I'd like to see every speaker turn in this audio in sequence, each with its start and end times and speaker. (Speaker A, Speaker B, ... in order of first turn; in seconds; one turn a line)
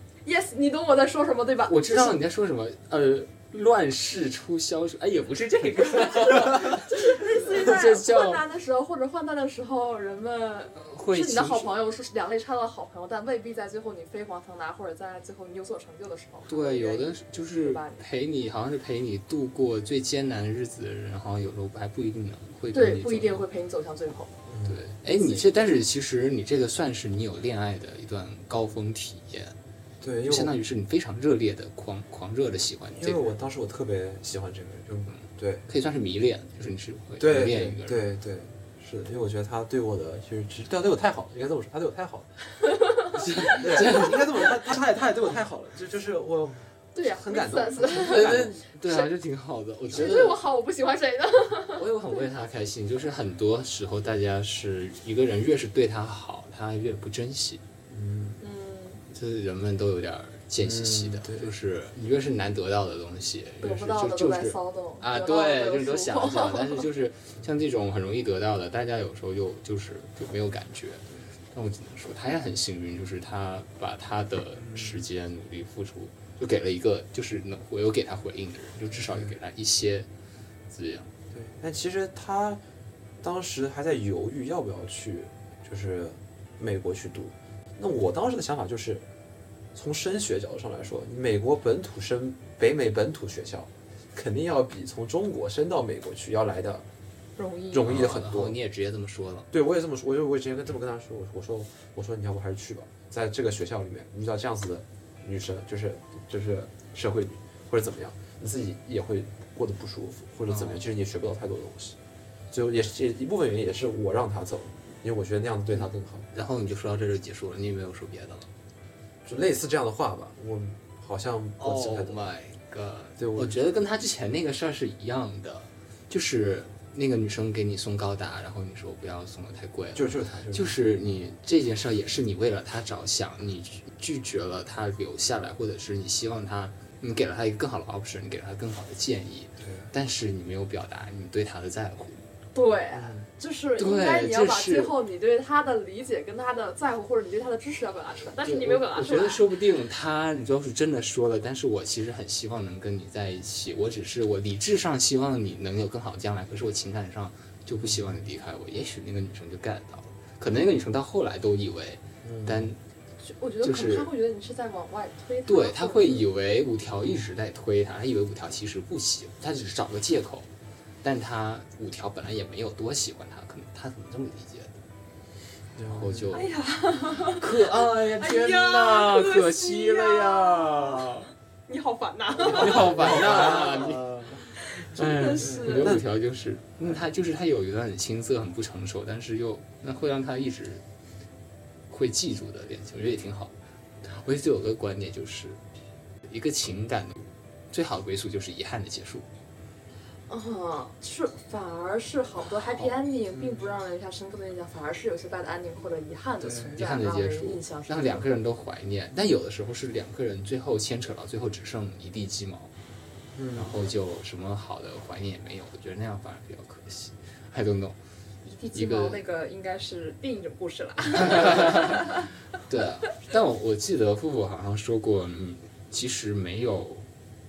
Speaker A: 0.2-2.2
Speaker B: 1.7-8.4
Speaker A: 5.9-18.1
Speaker B: 10.8-11.8
Speaker B: 16.5-23.4
Speaker A: 22.7-24.4
Speaker C: 24.5-24.8
Speaker B: 24.6-29.6
Speaker A: 25.1-25.7
Speaker C: 30.0-30.6
Speaker B: 30.2-33.3
Speaker C: 33.0-35.7
Speaker B: 35.1-38.0
Speaker C: 37.2-42.3
Speaker A: 42.6-43.5
Speaker C: 43.1-48.6
Speaker B: 43.2-44.3
Speaker A: 47.0-49.1
Speaker B: 47.9-50.4
Speaker A: 49.9-52.3
Speaker B: 51.7-57.6
Speaker C: 57.9-58.4
Speaker A: 58.4-59.0
Speaker B: 59.1-80.1
Speaker C: 60.6-61.5
Speaker A: 63.6-66.8
Speaker B: 80.7-81.1
Speaker C: 81.3-82.6
Speaker C: 83.2-89.1
Speaker C: 89.7-96.9
Speaker A: 97.4-98.0
Speaker C: 97.7-98.6
Speaker B: 97.8-99.5
Speaker C: 99.5-112.0
Speaker B: 110.5-110.8
Speaker C: 112.5-116.3
Speaker B: 115.7-118.5
Speaker C: 119.2-122.2
Speaker B: 121.6-142.3
Speaker C: 123.2-123.6
Speaker C: 129.9-130.8
Speaker C: 139.6-139.9
Speaker A: 142.6-149.4
Speaker C: 142.9-143.3
Speaker B: 143.8-144.9
Speaker B: 148.4-162.8
Speaker C: 157.7-158.2
Speaker C: 162.2-162.8
Speaker A: 163.2-166.3
Speaker B: 163.6-164.1
Speaker B: 165.5-170.5
Speaker B: 171.0-174.8
Speaker C: 175.8-176.4
Speaker B: 175.8-176.5
Speaker A: 176.3-186.0
Speaker B: 177.3-181.3
Speaker B: 182.4-190.8
Speaker C: 182.4-184.4
Speaker C: 185.4-186.1
Speaker B: 191.9-195.6
Speaker B: 196.3-199.3
Speaker A: 200.3-208.3
Speaker B: 202.5-202.9
Speaker B: 206.7-212.7
Speaker C: 213.3-213.8
Speaker B: 213.5-218.0
Speaker A: 218.4-222.3
Speaker B: 218.7-219.2
Speaker B: 221.2-227.1